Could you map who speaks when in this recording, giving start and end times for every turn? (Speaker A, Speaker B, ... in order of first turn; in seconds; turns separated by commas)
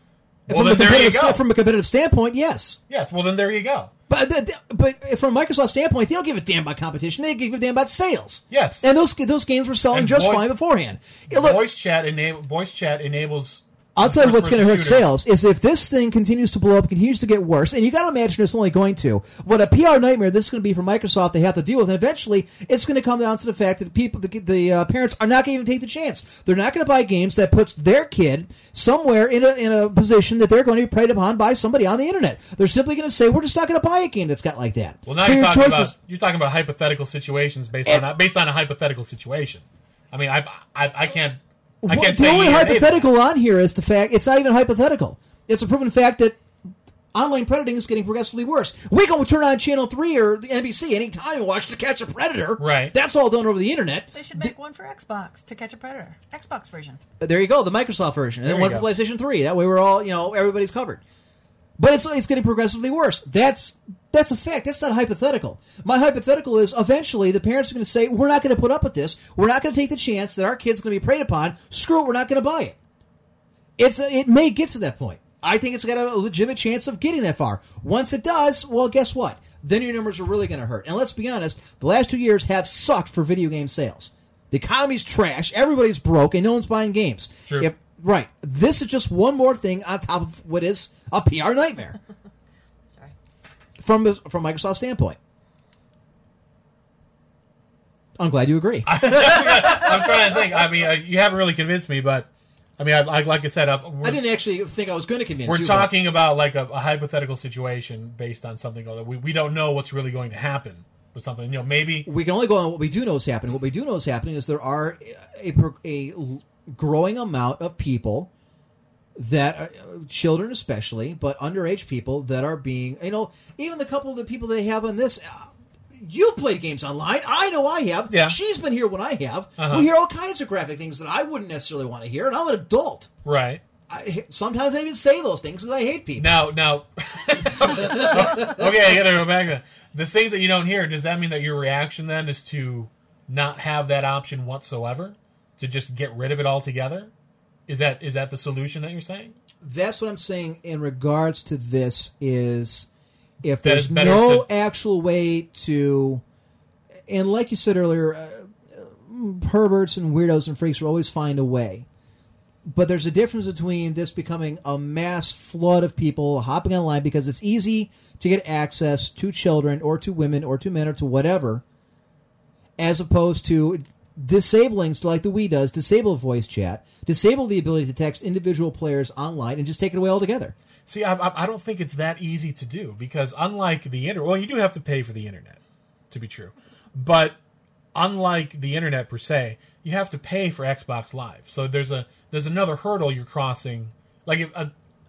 Speaker A: 0.5-1.4, Speaker B: 0.5-2.8, Speaker A: 2.9-3.9, Speaker B: 4.1-11.6, Speaker A: 8.5-8.9, Speaker A: 9.9-10.5, Speaker A: 11.3-15.1, Speaker B: 13.9-35.9, Speaker A: 35.1-43.1, Speaker B: 41.8-46.4, Speaker B: 47.1-54.5, Speaker A: 52.6-52.9, Speaker C: 54.1-57.0, Speaker B: 57.2-61.0, Speaker A: 58.4-58.9, Speaker B: 61.8-72.8, Speaker B: 73.8-92.0, Speaker B: 93.8-95.2, Speaker B: 98.2-100.6, Speaker A: 98.8-104.2, Speaker B: 104.0-105.9, Speaker A: 105.5-112.1, Speaker B: 112.0-118.3, Speaker B: 119.2-133.1, Speaker A: 128.1-128.4, Speaker A: 129.6-129.9, Speaker A: 133.2-133.6, Speaker B: 133.9-136.4, Speaker A: 136.2-147.1, Speaker B: 137.6-138.7, Speaker A: 147.7-149.3, Speaker B: 149.6-152.9, Speaker B: 153.4-156.2, Speaker A: 153.6-154.5, Speaker B: 157.1-161.8, Speaker B: 162.7-171.6, Speaker B: 172.8-180.5, Speaker A: 180.9-185.6, Speaker A: 186.1-187.3, Speaker A: 187.9-194.7